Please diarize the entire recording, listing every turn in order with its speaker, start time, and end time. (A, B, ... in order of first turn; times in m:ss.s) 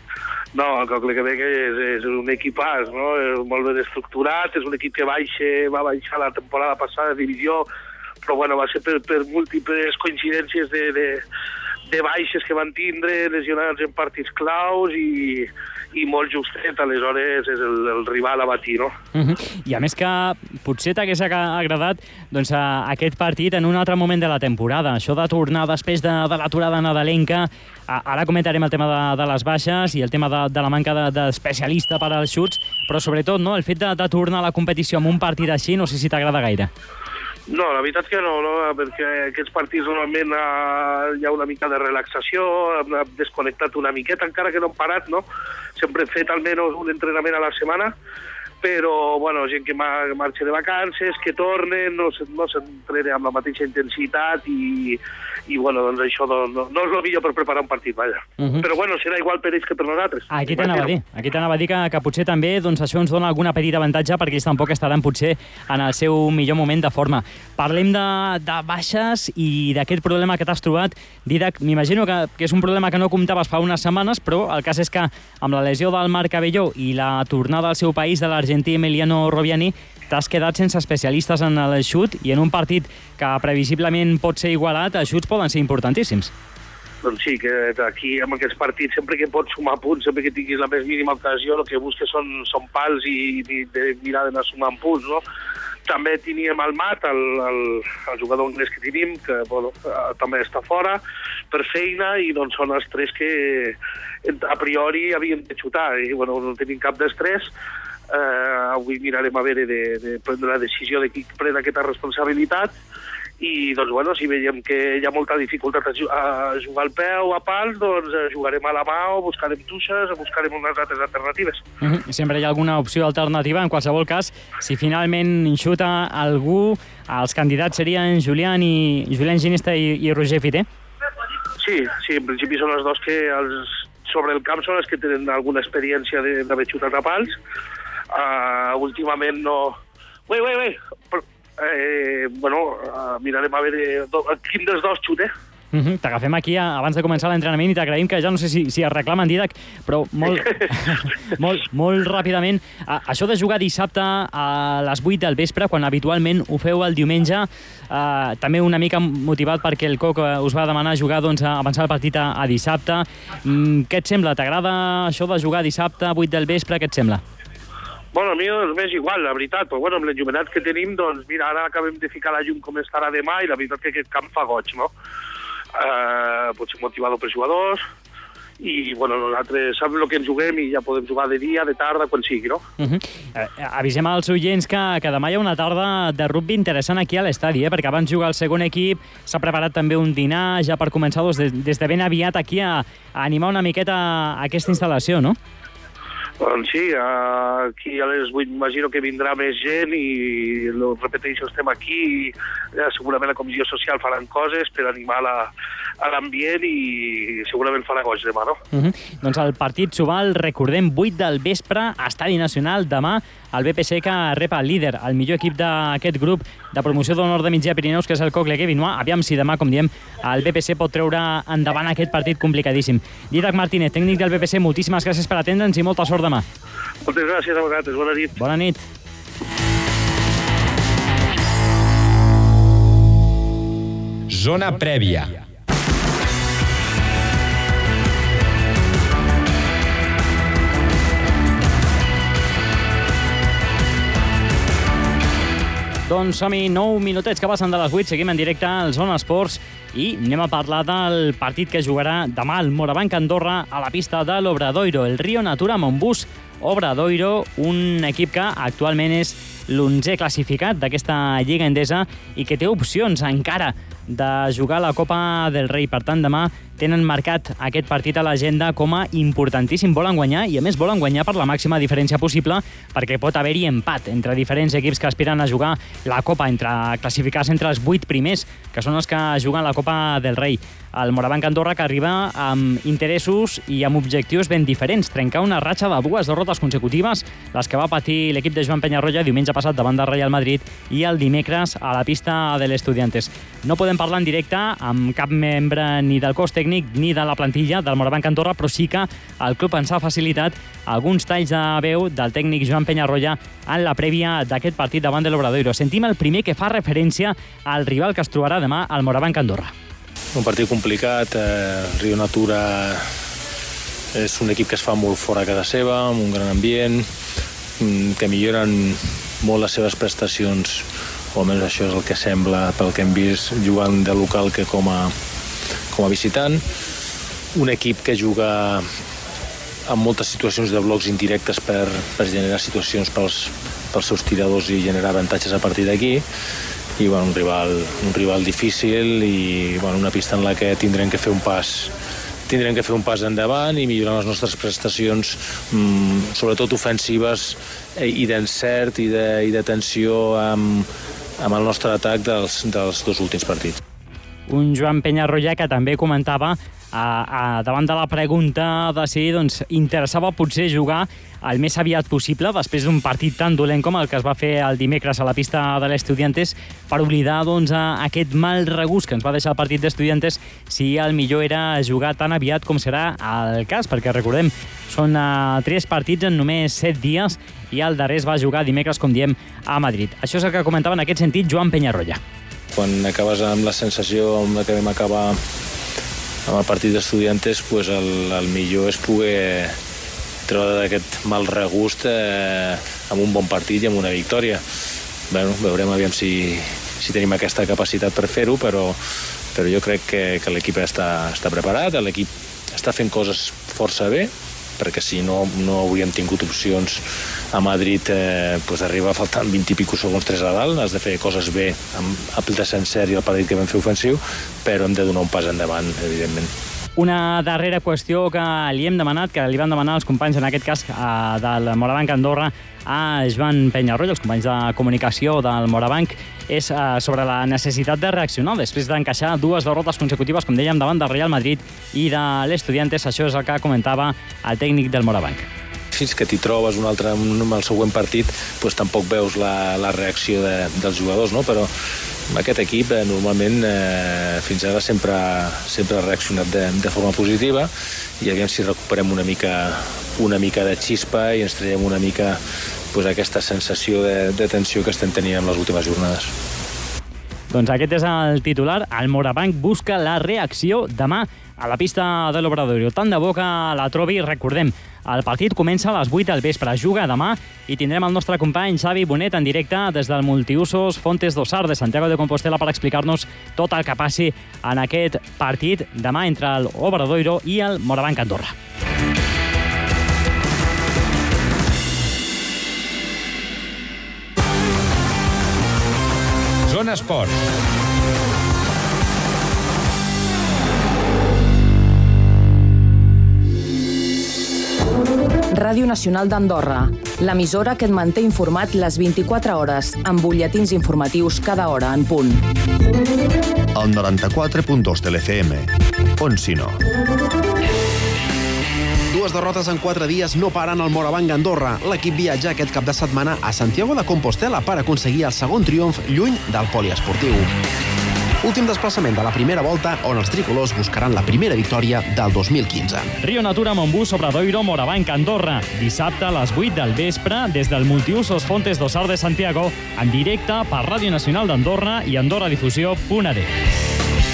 0:00.5-0:07.6 A
0:08.2-0:11.2 A
0:11.9-0:18.9 A
0:19.1-0:36.7 B
0:37.5-0:45.2 A
0:45.8-0:47.9 A
0:48.6-1:00.9 A
0:58.4-0:58.6 B
1:00.3-1:26.3 B
1:27.0-1:35.2 A
1:35.9-1:41.0 A
1:41.5-1:47.5 A
1:48.1-1:52.7 A
1:53.4-2:01.6 A
2:01.8-2:10.6 B
2:11.6-2:17.3 A
2:18.1-2:19.8 A
2:20.3-2:25.3 A
2:25.7-2:47.2 B
2:48.1-2:54.9 A
2:55.8-2:57.8 A
2:58.6-3:02.6 A
3:02.8-3:15.4 B
3:16.4-3:25.5 A
3:26.0-3:28.6 A
3:28.7-3:46.4 B
3:47.0-3:48.3 A
3:48.4-3:48.8 B
3:54.3-3:55.4 C
4:06.1-5:09.7 B
5:10.3-5:13.1 D
5:14.1-5:17.1 D
5:17.8-5:25.1 D
5:25.9-5:26.6 D
5:27.5-5:28.8 D
5:29.9-5:36.2 D
5:37.0-5:41.9 D
5:42.5-5:50.9 D
5:51.4-5:53.8 D
5:54.5-6:22.2 B
6:22.7-6:25.4 D
6:26.4-6:29.7 D
6:30.5-6:34.6 D
6:35.3-6:39.0 D
6:39.5-6:56.5 D
6:57.0-7:15.5 B
7:15.9-7:21.7 D
7:22.3-7:32.4 D
7:32.9-7:36.3 D
7:37.5-7:58.5 B
8:06.6-8:07.5 C
8:15.5-8:22.4 E
8:23.7-8:26.8 F
8:29.1-8:37.5 G
8:38.4-8:43.1 G
8:43.2-8:53.5 B